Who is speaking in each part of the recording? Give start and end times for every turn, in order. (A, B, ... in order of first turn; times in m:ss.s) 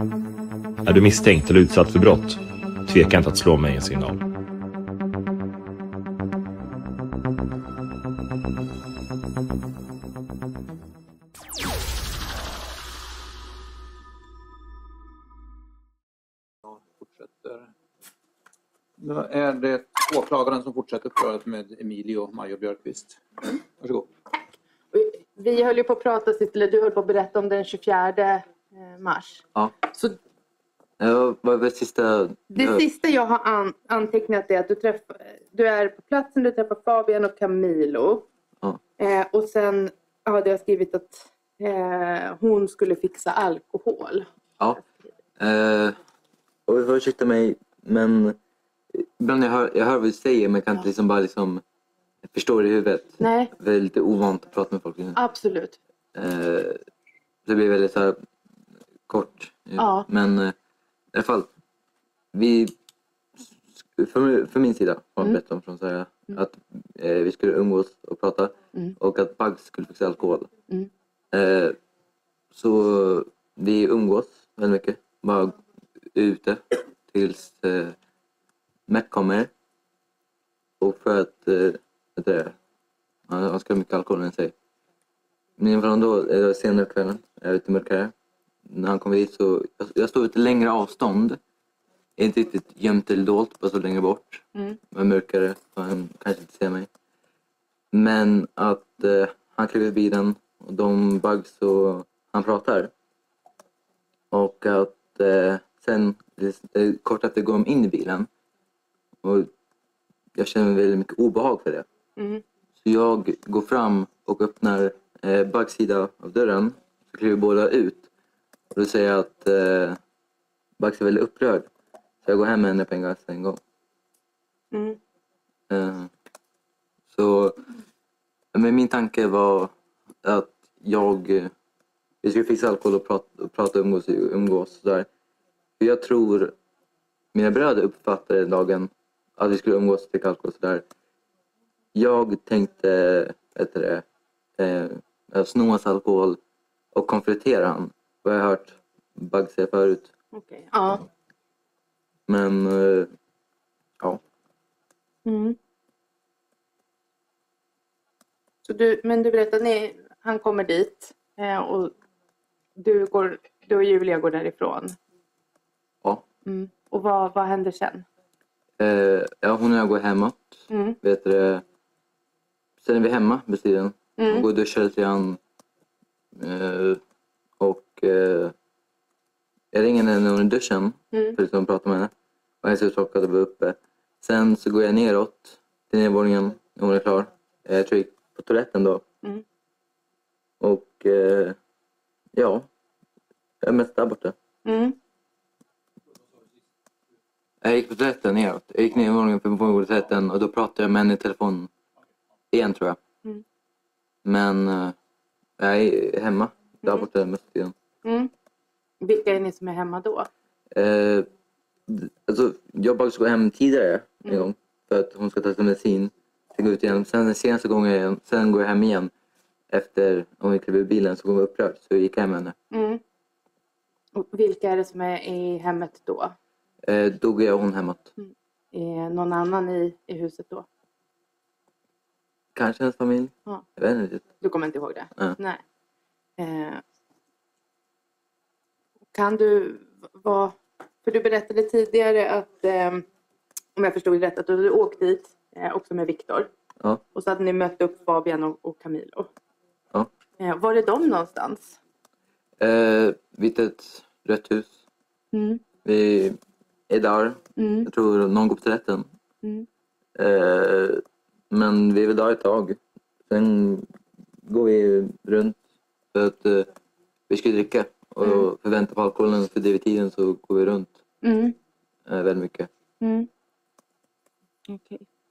0:00.9-0:04.2 A
0:16.7-0:17.7 B
0:19.0-0:23.2 B
0:23.8-0:24.1 B
0:24.9-0:30.2 C
0:31.0-0:32.9 D
0:32.5-0:38.3 C
0:39.0-0:44.3 C
0:45.4-0:46.0 D
0:46.7-0:48.4 D
0:48.9-0:51.6 D
0:52.3-0:55.2 D
0:53.2-0:53.5 C
0:55.2-0:55.8 C
0:56.2-0:56.8 D
0:57.5-0:58.2 D
0:59.1-1:00.6 D
0:59.8-1:00.1 C
1:01.1-1:01.5 D
1:02.3-1:02.7 D
1:03.4-1:10.5 D
1:11.3-1:11.8 D
1:12.5-1:15.6 D
1:16.1-1:18.0 D
1:18.9-1:19.5 D
1:20.8-1:22.6 D
1:23.3-1:24.5 D
1:25.6-1:28.1 D
1:28.7-1:31.4 D
1:32.2-1:36.9 D
1:34.6-1:34.8 C
1:37.9-1:42.9 D
1:44.3-1:48.3 D
1:49.2-1:49.5 D
1:50.4-1:51.9 D
1:52.2-1:52.4 C
1:52.8-1:58.1 D
1:58.7-2:00.0 D
2:00.8-2:01.7 D
2:02.2-2:03.6 D
2:04.7-2:05.0 C
2:05.7-2:06.1 D
2:07.1-2:07.6 D
2:08.5-2:11.5 D
2:12.2-2:15.1 D
2:15.8-2:16.6 D
2:17.3-2:20.8 D
2:21.9-2:24.0 D
2:24.6-2:26.4 D
2:26.9-2:30.1 D
2:30.3-2:31.1 C
2:32.3-2:33.1 D
2:35.2-2:35.6 C
2:38.7-2:41.9 C
2:42.8-2:45.0 C
2:46.5-2:48.0 C
2:48.8-2:51.6 D
2:50.7-2:51.0 C
2:52.8-2:55.4 D
2:54.2-2:54.5 C
2:56.4-2:57.0 D
2:57.6-2:58.5 D
2:59.7-3:09.0 D
3:01.1-3:01.4 C
3:10.6-3:11.6 D
3:12.3-3:12.7 D
3:13.6-3:14.4 D
3:14.6-3:15.0 C
3:17.6-3:21.7 D
3:22.5-3:23.0 D
3:24.2-3:25.0 D
3:25.6-3:27.8 D
3:28.0-3:28.3 C
3:29.0-3:30.3 C
3:30.7-3:31.3 D
3:31.9-3:39.1 D
3:39.7-3:42.6 D
3:42.7-3:43.0 C
3:44.1-3:46.4 C
3:46.8-3:48.1 D
3:48.2-3:50.7 C
3:52.6-3:54.2 D
3:54.4-3:55.6 C
3:56.4-3:56.8 C
3:59.1-4:03.0 C
4:03.8-4:06.5 C
4:07.1-4:09.3 C
4:10.4-4:11.8 C
4:12.6-4:14.8 D
4:15.3-4:15.6 C
4:15.8-4:16.4 D
4:16.9-4:19.1 D
4:17.6-4:17.9 C
4:20.2-4:23.9 D
4:24.5-4:25.6 D
4:26.1-4:26.7 D
4:27.3-4:31.0 D
4:28.2-4:28.5 C
4:31.2-4:31.6 C
4:32.1-4:32.7 D
4:33.0-4:33.3 C
4:34.7-4:35.0 C